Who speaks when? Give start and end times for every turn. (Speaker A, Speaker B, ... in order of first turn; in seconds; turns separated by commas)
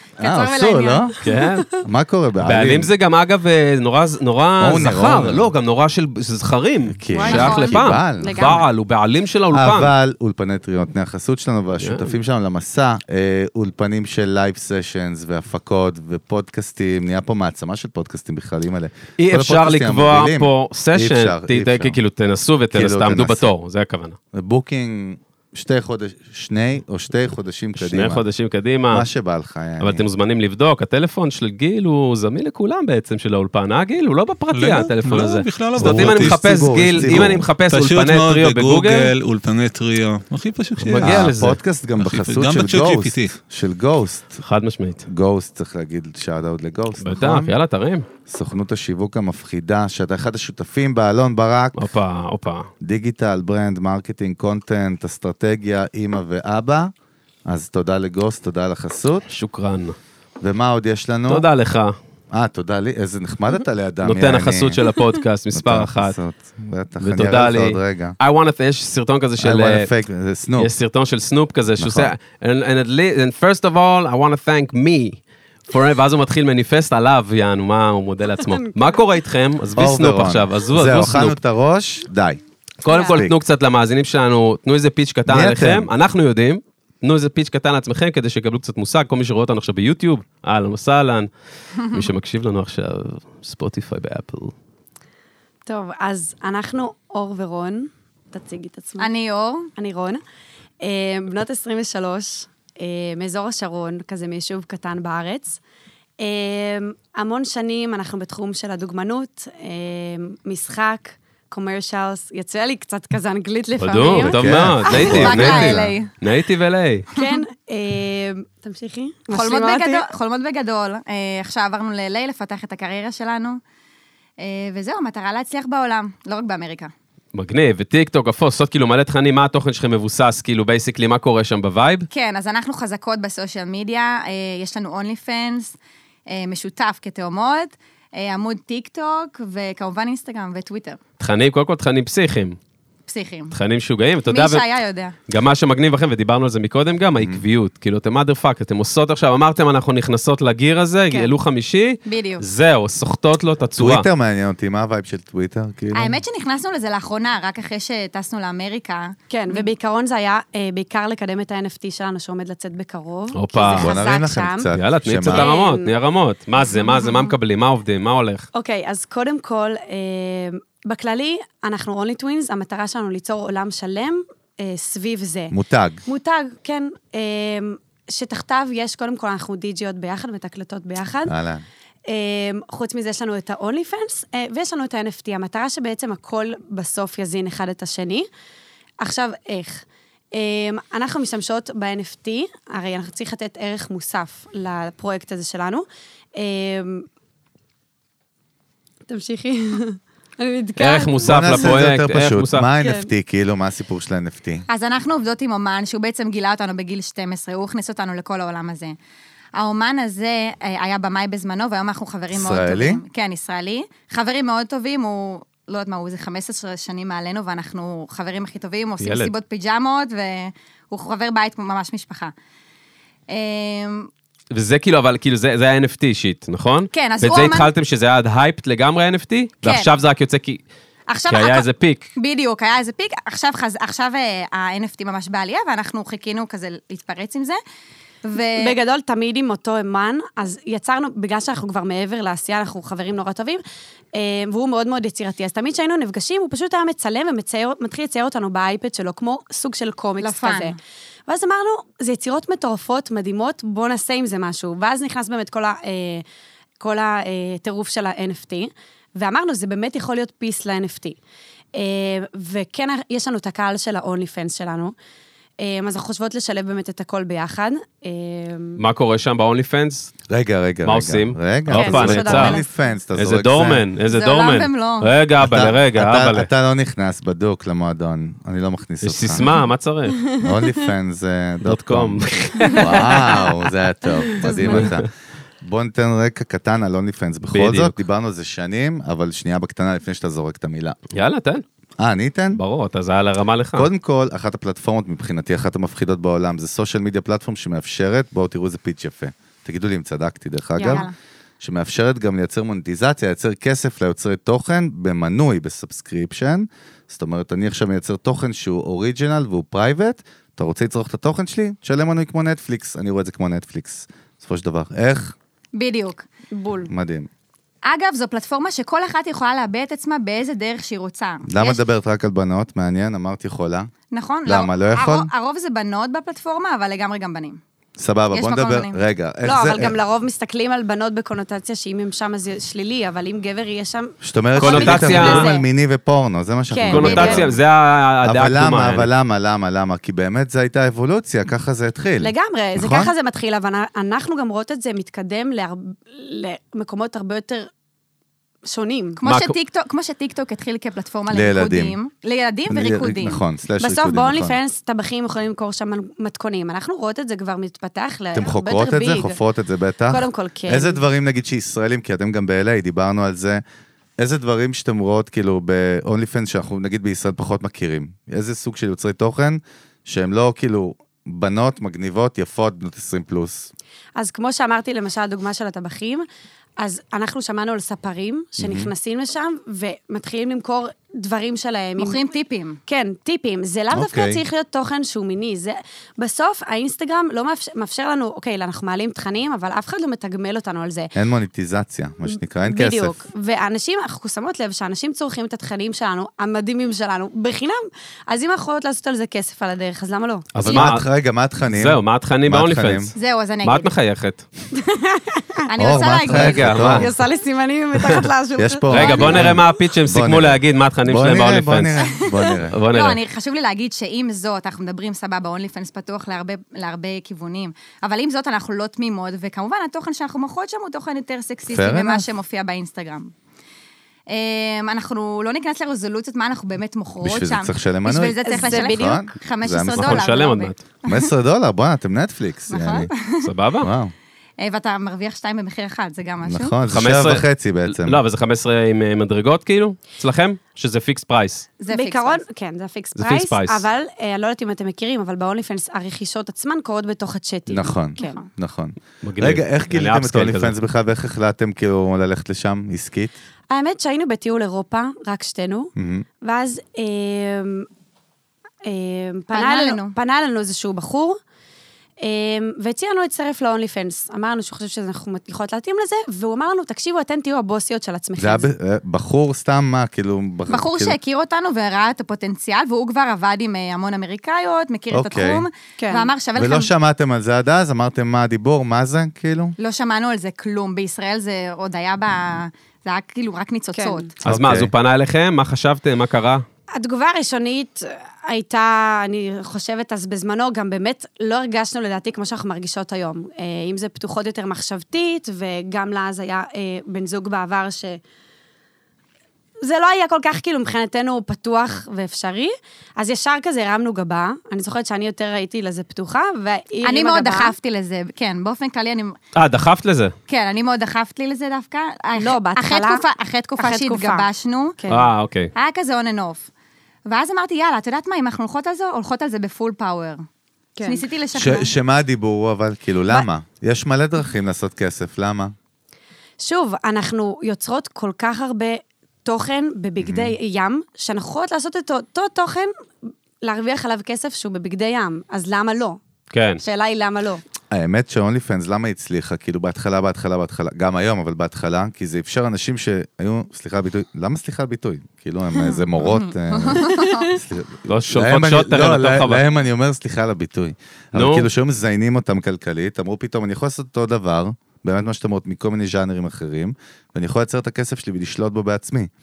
Speaker A: 0.2-1.6, Speaker B: 0.2-1.2, Speaker C: 1.2-1.7, Speaker B: 1.8-2.9, Speaker C: 2.4-9.9, Speaker B: 4.6-5.5, Speaker B: 6.9-8.6, Speaker A: 7.1-8.7, Speaker D: 7.2-7.7, Speaker B: 9.5-22.0, Speaker C: 11.8-12.1, Speaker C: 19.2-24.2, Speaker B: 22.7-23.5, Speaker B: 24.3-28.2, Speaker C: 27.8-29.1, Speaker B: 28.9-30.1, Speaker C: 29.8-39.1, Speaker E: 34.5-41.3, Speaker B: 35.8-37.5, Speaker C: 40.8-41.6, Speaker B: 41.0-44.4, Speaker E: 42.0-43.4, Speaker C: 44.4-45.0, Speaker B: 45.1-47.5, Speaker C: 47.0-48.1, Speaker B: 48.3-51.8, Speaker C: 51.8-52.7, Speaker B: 52.8-56.9, Speaker B: 57.5-59.3, Speaker C: 59.3-60.0, Speaker B: 60.4-61.5, Speaker C: 61.3-61.9, Speaker B: 62.3-64.8, Speaker C: 64.0-66.2, Speaker B: 65.5-68.2, Speaker C: 67.0-69.9, Speaker B: 69.4-70.7, Speaker C: 70.6-81.3, Speaker B: 71.8-72.1, Speaker B: 79.8-82.4, Speaker C: 82.8-91.3, Speaker A: 82.9-83.2, Speaker B: 83.0-83.4, Speaker B: 85.3-85.9, Speaker D: 91.8-92.0, Speaker C: 91.9-94.5, Speaker A: 95.7-99.1, Speaker D: 99.0-99.7, Speaker A: 99.8-100.2, Speaker A: 100.8-105.6, Speaker A: 106.2-114.4, Speaker C: 113.8-117.1, Speaker B: 114.3-115.9, Speaker D: 114.9-116.1, Speaker A: 114.9-115.3, Speaker A: 117.1-120.1, Speaker D: 119.3-123.6, Speaker D: 124.4-126.9, Speaker C: 127.3-132.1, Speaker D: 132.1-135.7, Speaker D: 136.3-141.0, Speaker C: 141.2-142.6, Speaker D: 143.1-143.5, Speaker C: 143.5-144.7, Speaker D: 144.3-145.2, Speaker C: 145.3-154.1, Speaker D: 152.1-152.4, Speaker B: 153.8-156.2, Speaker D: 155.9-159.7, Speaker A: 159.3-164.7, Speaker C: 163.3-164.0, Speaker B: 163.6-165.5, Speaker C: 164.7-168.5, Speaker A: 165.3-165.9, Speaker A: 168.5-181.3, Speaker B: 175.5-176.0, Speaker B: 181.3-181.7, Speaker A: 182.1-188.3, Speaker A: 189.0-197.1, Speaker A: 199.1-201.7, Speaker C: 200.8-202.7, Speaker B: 201.2-204.6, Speaker A: 202.8-203.1, Speaker D: 204.7-208.9, Speaker D: 209.6-222.3, Speaker B: 212.3-213.0, Speaker C: 219.0-219.3, Speaker D: 223.3-224.1, Speaker C: 224.5-230.6, Speaker D: 226.9-227.7, Speaker D: 229.6-229.9, Speaker D: 231.1-237.6, Speaker C: 231.3-232.1, Speaker D: 238.2-238.8, Speaker A: 238.4-243.6, Speaker A: 244.1-256.2, Speaker D: 250.2-250.8, Speaker A: 256.8-261.2, Speaker A: 261.7-264.9, Speaker A: 265.6-268.8, Speaker C: 268.8-270.1, Speaker B: 270.3-273.8, Speaker C: 270.9-272.6, Speaker A: 271.7-272.6, Speaker C: 273.2-276.5, Speaker D: 274.1-275.1, Speaker B: 275.4-279.4, Speaker C: 279.0-280.2, Speaker B: 280.4-285.1, Speaker C: 281.6-283.5, Speaker A: 282.6-283.5, Speaker A: 284.2-284.9, Speaker C: 284.4-285.1, Speaker B: 285.6-291.0, Speaker C: 287.5-287.9, Speaker C: 291.1-291.6, Speaker B: 292.0-292.6, Speaker C: 292.6-293.9, Speaker B: 293.8-301.1, Speaker A: 300.8-301.1, Speaker D: 300.9-301.1, Speaker B: 301.6-315.3, Speaker D: 315.8-316.3, Speaker A: 316.5-316.9, Speaker B: 316.9-317.3, Speaker D: 317.8-321.8, Speaker B: 321.5-323.9, Speaker D: 324.1-327.6, Speaker B: 324.5-325.3, Speaker B: 328.0-330.0, Speaker D: 328.3-329.0, Speaker A: 329.4-335.7, Speaker B: 334.2-337.6, Speaker C: 334.6-335.5, Speaker A: 336.7-337.5, Speaker C: 336.9-339.1, Speaker D: 337.0-337.5, Speaker B: 338.2-343.1, Speaker A: 342.2-347.7, Speaker A: 348.6-349.2, Speaker D: 349.2-353.4, Speaker C: 349.2-349.6, Speaker B: 351.3-351.9, Speaker B: 352.7-354.6, Speaker A: 353.8-359.4, Speaker B: 358.4-363.6, Speaker A: 360.1-361.0, Speaker B: 364.2-373.7, Speaker A: 374.2-376.3, Speaker A: 376.8-382.3, Speaker B: 378.6-378.9, Speaker D: 382.0-382.8, Speaker A: 382.9-391.1, Speaker B: 383.9-384.4, Speaker B: 391.1-393.2, Speaker A: 392.3-400.9, Speaker C: 400.5-401.1, Speaker B: 400.7-403.1, Speaker C: 401.7-404.5, Speaker D: 403.1-403.9, Speaker A: 404.7-405.6, Speaker D: 405.7-406.8, Speaker B: 405.8-407.1, Speaker C: 406.3-407.1, Speaker A: 406.8-409.5, Speaker C: 408.0-408.3, Speaker B: 408.6-412.8, Speaker C: 408.9-411.9, Speaker C: 412.7-413.2, Speaker D: 412.9-423.3, Speaker B: 421.7-422.3, Speaker D: 424.3-431.3, Speaker B: 427.2-430.2, Speaker A: 428.4-429.4, Speaker C: 430.0-430.8, Speaker B: 431.1-433.1, Speaker D: 432.7-433.5, Speaker C: 433.4-433.9, Speaker B: 433.8-434.1, Speaker D: 434.6-436.8, Speaker B: 436.4-438.2, Speaker C: 436.9-441.7, Speaker D: 441.8-442.4, Speaker A: 441.9-448.4, Speaker C: 443.2-443.9, Speaker B: 447.7-453.3, Speaker C: 449.2-450.7, Speaker A: 453.7-457.9, Speaker B: 456.0-456.2, Speaker A: 458.9-461.4, Speaker D: 459.5-460.1, Speaker A: 462.2-468.7, Speaker B: 468.4-471.2, Speaker D: 470.7-476.9, Speaker B: 475.1-475.7, Speaker A: 476.0-476.3, Speaker B: 476.6-479.8, Speaker D: 479.8-484.3, Speaker A: 483.9-484.3, Speaker B: 484.4-484.9, Speaker C: 484.4-486.6, Speaker A: 486.9-498.2, Speaker A: 499.8-507.7, Speaker D: 507.0-509.4, Speaker C: 509.6-510.3, Speaker D: 510.5-515.0, Speaker A: 512.4-513.2, Speaker A: 513.8-514.5, Speaker A: 515.0-515.3, Speaker C: 515.1-515.7, Speaker D: 515.8-516.7, Speaker D: 517.3-520.4, Speaker A: 521.0-521.2, Speaker D: 521.0-521.9, Speaker B: 521.5-525.7, Speaker A: 526.6-532.9, Speaker B: 530.2-530.5, Speaker A: 533.6-536.2, Speaker C: 536.5-536.8, Speaker A: 536.8-537.6, Speaker B: 537.9-559.3, Speaker D: 546.2-547.5, Speaker A: 547.0-547.5, Speaker C: 548.1-549.6, Speaker C: 551.3-551.7